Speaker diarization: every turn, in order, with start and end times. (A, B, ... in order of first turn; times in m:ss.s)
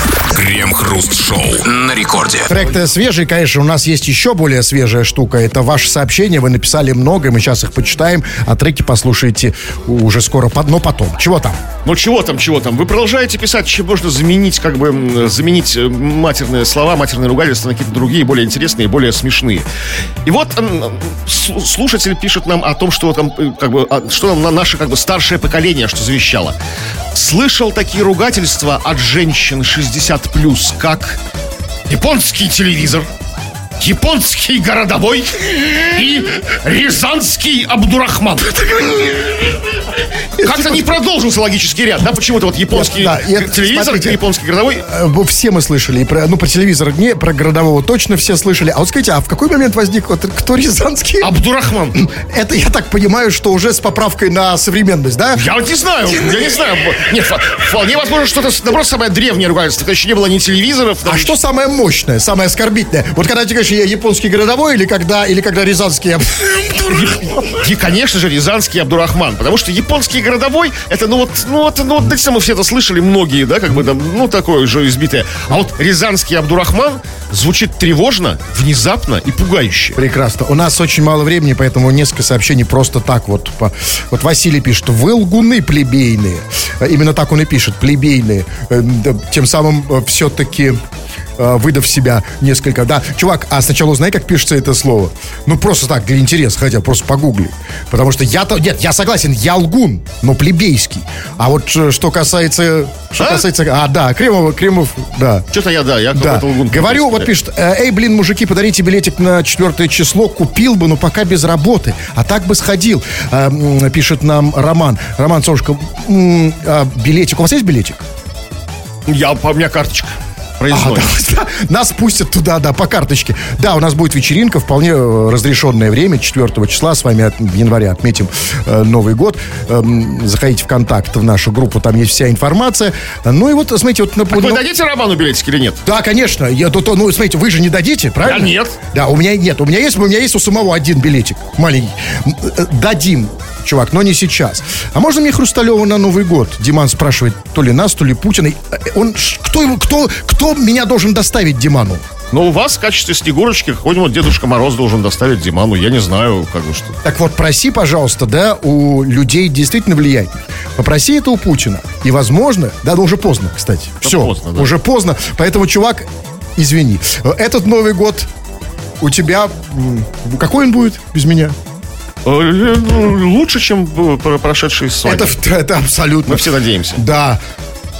0:00.3-0:02.5 A
0:02.5-0:11.6 B
0:11.8-0:19.6 C
0:20.2-0:26.6 C
0:27.1-0:31.2 C
0:31.9-0:33.1 C
0:33.8-0:39.8 C
0:40.4-0:40.9 B
0:40.4-0:44.8 C
0:42.7-0:44.2 B
0:44.8-0:51.3 B
0:51.2-0:52.0 C
0:51.9-0:55.4 B
0:55.3-1:01.3 C
0:56.1-0:56.4 B
1:01.0-1:07.6 B
1:06.9-1:20.0 C
1:20.0-1:30.8 B
1:31.4-1:45.5 B
1:43.2-1:43.4 C
1:45.5-1:47.3 C
1:46.1-1:58.0 B
1:59.0-2:01.1 C
2:00.7-2:14.6 B
2:14.3-2:15.8 C
2:15.8-2:32.0 B
2:18.2-2:18.8 C
2:32.3-2:37.0 C
2:37.0-2:48.3 B
2:44.0-2:44.7 C
2:49.0-2:51.6 B
2:52.2-2:55.3 C
2:55.0-2:57.4 B
2:56.3-2:57.0 C